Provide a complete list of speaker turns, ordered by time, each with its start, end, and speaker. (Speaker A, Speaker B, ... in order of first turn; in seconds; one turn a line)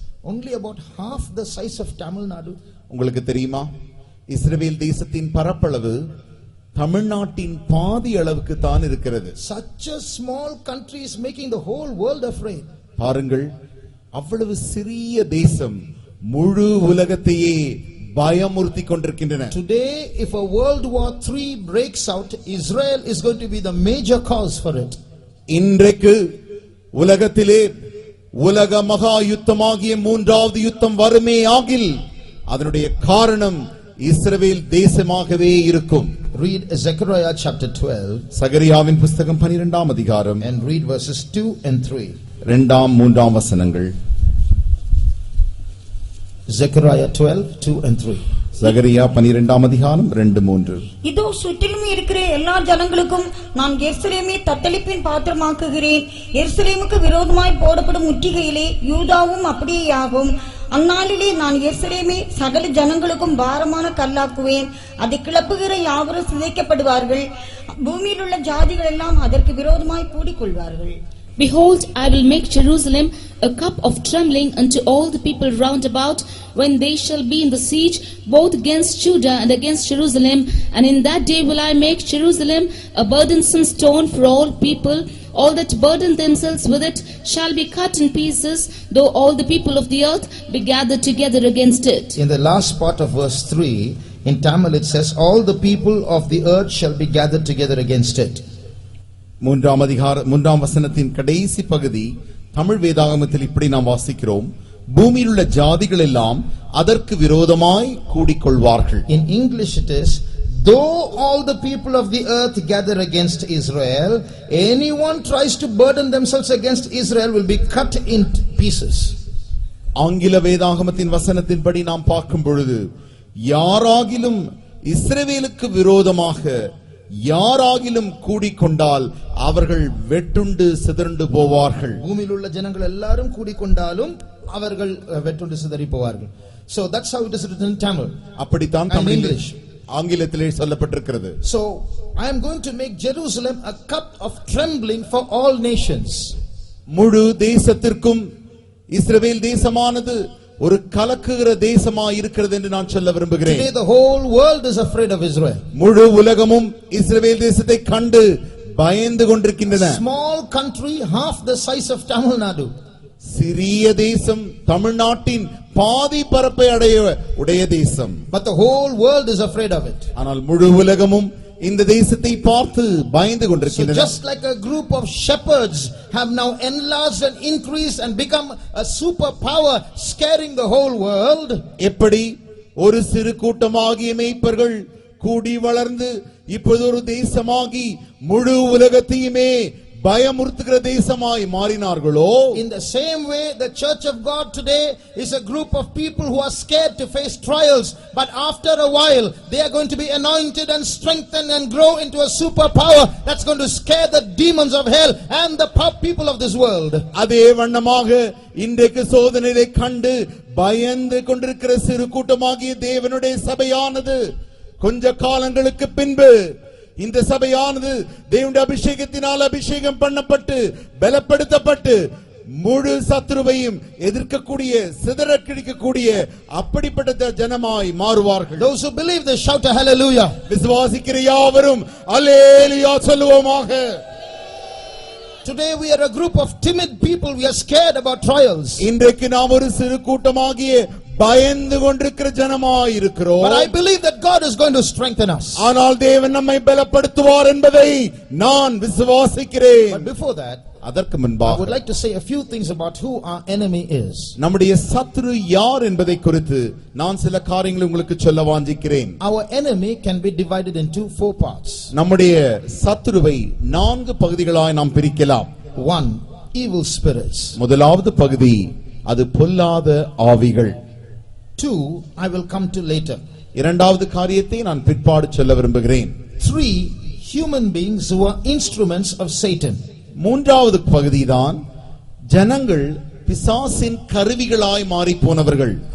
Speaker A: 0.2-2.5
Speaker B: 2.9-3.7
Speaker B: 4.3-6.0
Speaker B: 6.8-9.3
Speaker A: 9.4-12.6
Speaker B: 13.0-13.5
Speaker B: 14.1-19.5
Speaker A: 19.5-25.0
Speaker B: 25.5-26.2
Speaker B: 26.9-27.7
Speaker B: 28.4-36.1
Speaker A: 36.3-38.3
Speaker B: 38.3-40.4
Speaker A: 40.4-42.1
Speaker B: 42.5-43.9
Speaker A: 46.5-48.2
Speaker B: 48.6-50.8
Speaker C: 51.0-67.2
Speaker C: 67.8-71.0
Speaker D: 71.4-92.2
Speaker A: 92.2-98.4
Speaker B: 99.4-109.0
Speaker A: 109.1-119.1
Speaker B: 120.0-122.8
Speaker B: 123.5-126.6
Speaker B: 127.2-132.0
Speaker A: 132.0-138.1
Speaker B: 138.4-141.3
Speaker A: 138.9-139.6
Speaker A: 141.4-146.3
Speaker B: 146.9-148.3
Speaker B: 148.9-153.7
Speaker A: 153.4-155.6
Speaker B: 155.7-160.0
Speaker A: 159.7-162.7
Speaker B: 163.2-168.2
Speaker A: 168.3-170.1
Speaker B: 170.2-174.1
Speaker A: 173.7-181.6
Speaker B: 181.8-192.6
Speaker A: 192.5-207.1
Speaker B: 207.1-214.2
Speaker B: 214.8-222.0
Speaker B: 222.6-228.7
Speaker A: 228.6-230.3
Speaker B: 230.5-234.0
Speaker A: 235.4-238.8
Speaker B: 238.8-243.7
Speaker A: 243.4-245.7
Speaker B: 245.6-250.1
Speaker A: 249.9-250.6
Speaker B: 250.8-251.8
Speaker A: 251.4-254.3
Speaker B: 254.4-259.2
Speaker A: 259.2-261.9
Speaker B: 261.9-265.5
Speaker A: 265.8-267.6
Speaker B: 267.6-270.8
Speaker A: 271.6-273.2
Speaker B: 273.5-276.1
Speaker A: 276.4-279.8
Speaker B: 280.2-281.6
Speaker B: 282.3-285.8